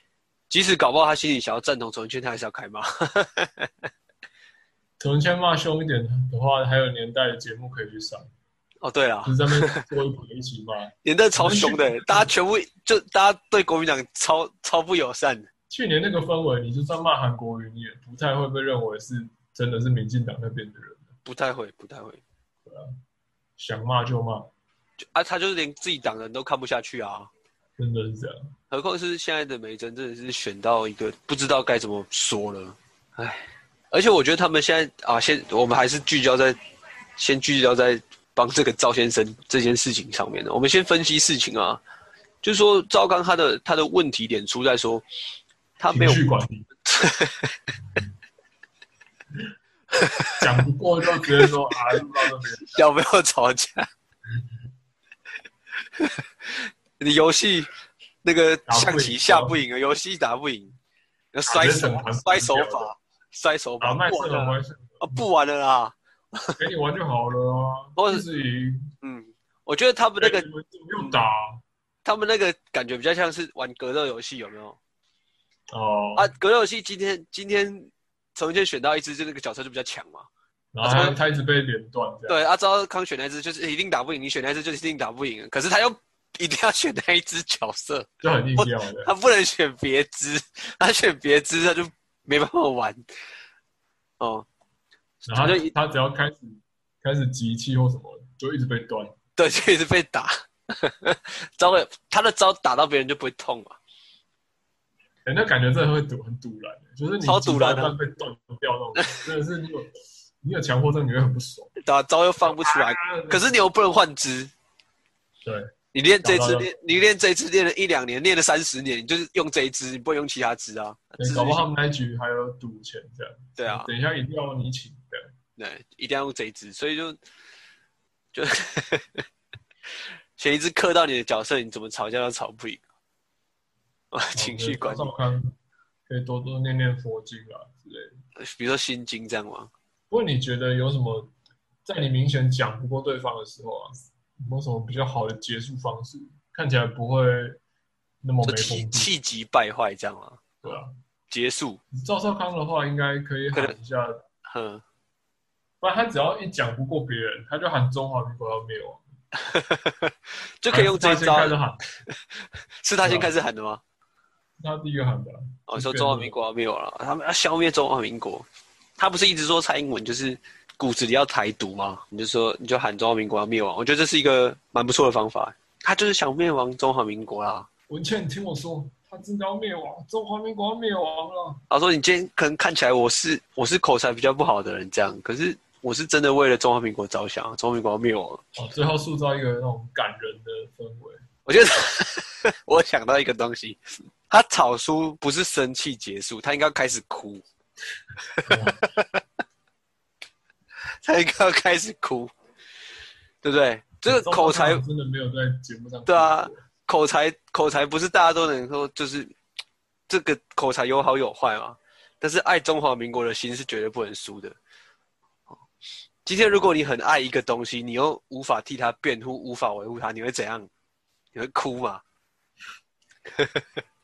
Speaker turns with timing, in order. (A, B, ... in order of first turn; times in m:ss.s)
0:00.5-0:03.7 A
0:05.0-0:08.3 B
0:08.8-0:09.8 A
0:09.2-0:12.3 B
0:11.0-0:15.5 A
0:15.7-0:21.1 B
0:21.2-0:22.2 A
0:22.6-0:23.0 B
0:23.6-0:24.5 B
0:25.0-0:27.3 A
0:27.8-0:28.5 B
0:28.7-0:36.6 A
0:37.2-0:41.8 A
0:42.4-0:45.0 A
0:45.8-0:46.2 A
0:45.9-0:46.7 B
0:46.9-0:47.5 A
0:50.0-0:50.4 A
0:50.3-0:52.8 B
0:51.4-0:52.0 A
0:52.7-0:53.9 A
0:56.0-0:57.7 A
0:58.2-1:00.8 A
0:58.7-0:59.6 B
1:01.3-1:06.6 A
1:01.5-1:02.9 B
1:03.8-1:05.2 B
1:06.6-1:08.9 B
1:08.0-1:08.2 A
1:09.0-1:10.5 A
1:10.2-1:11.6 B
1:12.0-1:14.8 A
1:15.7-1:16.3 B
1:16.2-1:20.3 A
1:20.7-1:22.4 B
1:20.8-1:21.2 A
1:22.3-1:33.0 A
1:28.2-1:29.1 B
1:34.2-1:34.5 A
1:35.2-1:35.7 A
1:35.3-1:39.2 B
1:39.4-1:43.8 A
1:45.2-1:51.7 B
1:47.2-1:47.9 A
1:49.0-1:49.2 A
1:51.8-1:54.5 A
1:52.4-1:53.4 B
1:55.4-1:57.0 B
1:55.9-2:01.6 A
2:01.2-2:05.3 B
2:03.6-2:03.9 A
2:05.6-2:07.2 A
2:08.3-2:09.2 A
2:10.4-2:12.8 A
2:14.1-2:15.1 A
2:14.4-2:15.6 B
2:16.1-2:18.2 B
2:18.4-2:19.7 A
2:20.1-2:21.3 B
2:21.9-2:27.6 B
2:28.2-2:29.1 B
2:28.4-2:30.6 A
2:30.6-2:30.9 B
2:31.3-2:31.8 A
2:31.9-2:34.2 B
2:34.5-2:34.8 A
2:35.8-2:39.0 B
2:39.4-2:41.6 A
2:40.7-2:41.8 B
2:42.8-2:43.8 A
2:43.0-2:43.3 B
2:44.6-2:46.4 B
2:45.7-2:48.5 A
2:49.0-2:57.7 A
2:57.9-3:01.6 B
3:01.7-3:08.5 A
3:08.6-3:11.2 B
3:11.5-3:17.4 A
3:18.2-3:19.2 A
3:18.5-3:18.9 B
3:21.0-3:22.3 A
3:23.4-3:24.8 A
3:24.1-3:26.6 B
3:26.1-3:29.3 A
3:30.1-3:34.6 A
3:36.3-3:40.7 A
3:41.3-3:42.0 A
3:43.3-3:43.6 A